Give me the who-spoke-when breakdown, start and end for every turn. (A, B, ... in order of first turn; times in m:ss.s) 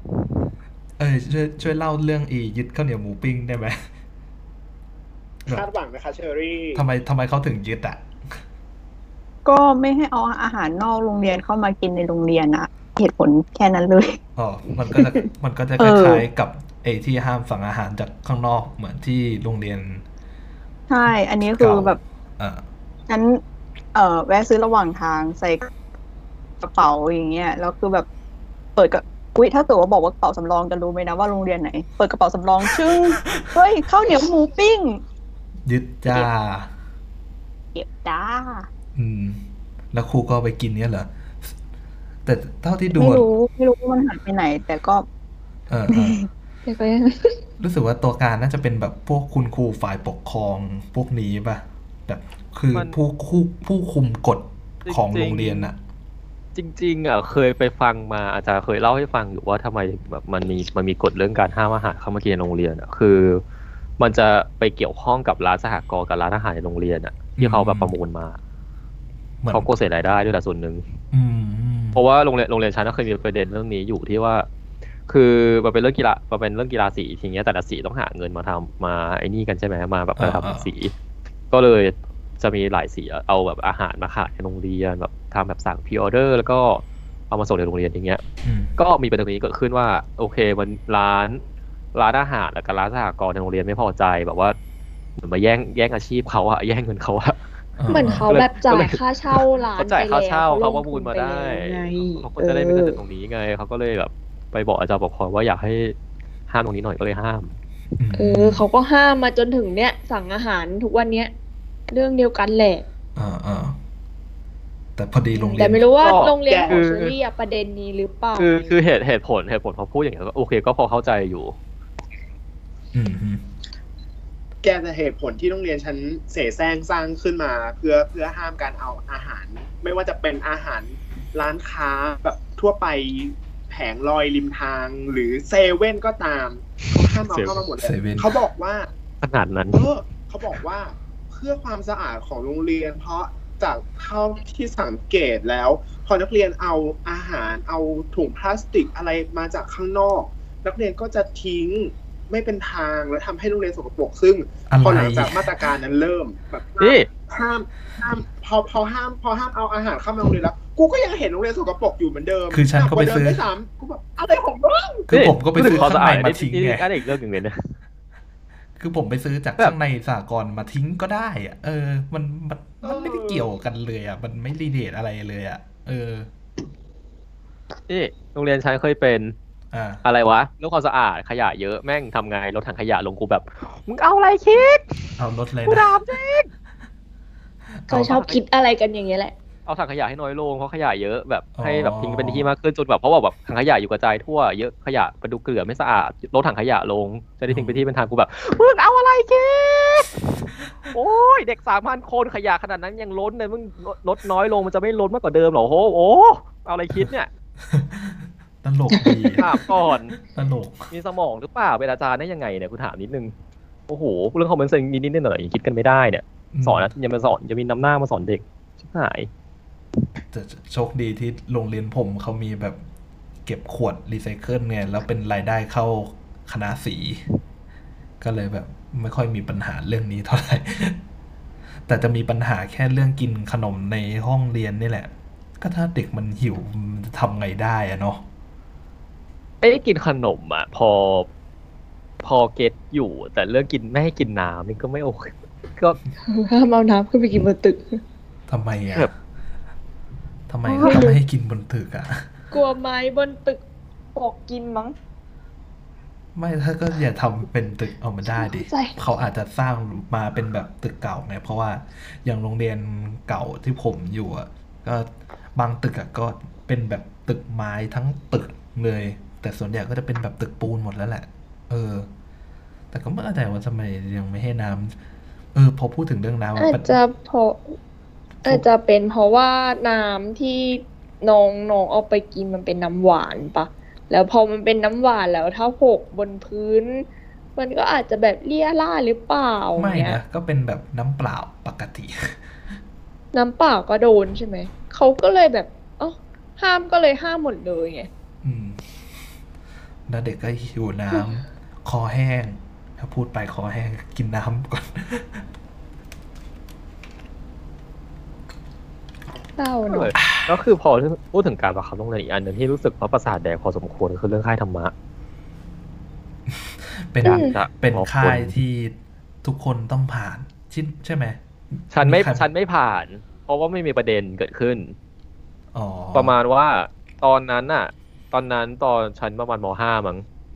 0:01.0-0:03.8 A
0:05.5-0:06.8 B
0:06.7-0:08.4 A
0:09.4-0:14.2 C
0:14.4-0:20.0 A
0:15.8-0:16.2 C
0:20.9-0:22.0 C
0:21.1-0:22.6 A
0:23.1-0:23.4 C
0:23.9-0:25.7 C
0:26.6-0:28.1 C
0:28.8-0:35.0 C
0:35.6-0:36.7 A
0:37.7-0:38.6 C
0:38.9-0:41.5 A
0:42.2-0:43.3 A
0:42.9-0:45.0 C
0:45.7-0:46.2 A
0:45.9-0:46.2 C
0:46.6-0:47.4 D
0:47.6-0:55.8 A
0:54.8-0:55.7 E
0:56.5-1:03.4 E
1:04.0-1:08.4 E
1:07.4-1:08.0 A
1:09.4-1:09.7 A
1:09.5-1:11.0 E
1:11.1-1:12.0 A
1:11.9-1:14.5 E
1:15.1-1:20.9 E
1:20.2-1:20.7 A
1:21.5-1:28.2 E
1:28.4-1:28.7 A
1:28.8-1:31.4 E
1:31.9-1:34.6 E
1:35.2-1:37.4 E
1:37.8-1:38.3 A
1:37.9-1:43.0 D
1:37.9-1:45.9 E
1:46.5-1:47.5 E
1:48.0-1:48.6 A
1:48.1-1:51.3 D
1:51.9-1:52.8 D
1:53.2-1:53.8 A
1:55.0-1:55.8 A
1:55.3-1:58.7 D
1:56.0-1:57.1 E
1:56.4-1:56.8 B
1:58.4-2:01.5 E
2:02.9-2:03.4 A
2:04.6-2:18.9 B
2:17.3-2:17.6 E
2:17.8-2:18.3 A
2:19.2-2:19.8 E
2:19.7-2:45.1 B
2:34.7-2:35.6 A
2:36.8-2:37.1 E
2:42.5-2:43.4 A
2:45.1-2:46.9 A
2:45.1-2:47.7 E
2:48.8-2:56.3 A
2:52.8-2:53.2 E
2:57.9-2:59.3 E
2:59.7-3:00.0 A
3:00.0-3:06.5 E
3:05.2-3:05.9 A
3:07.7-3:08.2 A
3:07.9-3:09.3 D
3:08.1-3:08.4 E
3:09.6-3:20.2 E
3:11.6-3:12.5 A
3:17.5-3:17.8 A
3:20.9-3:27.3 E
3:27.7-3:29.4 A
3:29.0-3:29.4 D
3:29.4-3:30.2 E
3:30.2-3:30.9 A
3:30.9-3:33.3 E
3:33.9-3:39.3 E
3:36.5-3:36.9 A
3:40.3-3:42.8 A
3:43.4-3:47.2 A
3:48.2-3:51.0 A
3:51.9-3:58.2 A
3:59.6-4:01.3 E
4:02.2-4:06.0 E
4:06.3-4:08.0 D
4:08.5-4:09.1 A
4:10.5-4:12.3 A
4:10.7-4:11.2 D
4:12.5-4:13.6 D
4:14.1-4:14.9 D
4:16.3-4:32.1 A
4:18.3-4:19.0 D
4:32.9-4:35.0 A
4:35.5-4:37.0 A
4:36.6-4:37.6 D
4:38.4-4:50.2 D
4:49.8-4:52.4 A
4:53.3-4:58.1 D
4:58.4-4:58.8 A
5:00.1-5:05.4 A
5:09.6-5:10.1 D
5:09.9-5:14.9 E
5:10.2-5:10.5 A
5:16.5-5:22.5 A
5:17.2-5:17.6 D
5:17.3-5:18.5 E
5:21.9-5:24.9 E
5:25.7-5:26.3 A
5:26.1-5:30.2 E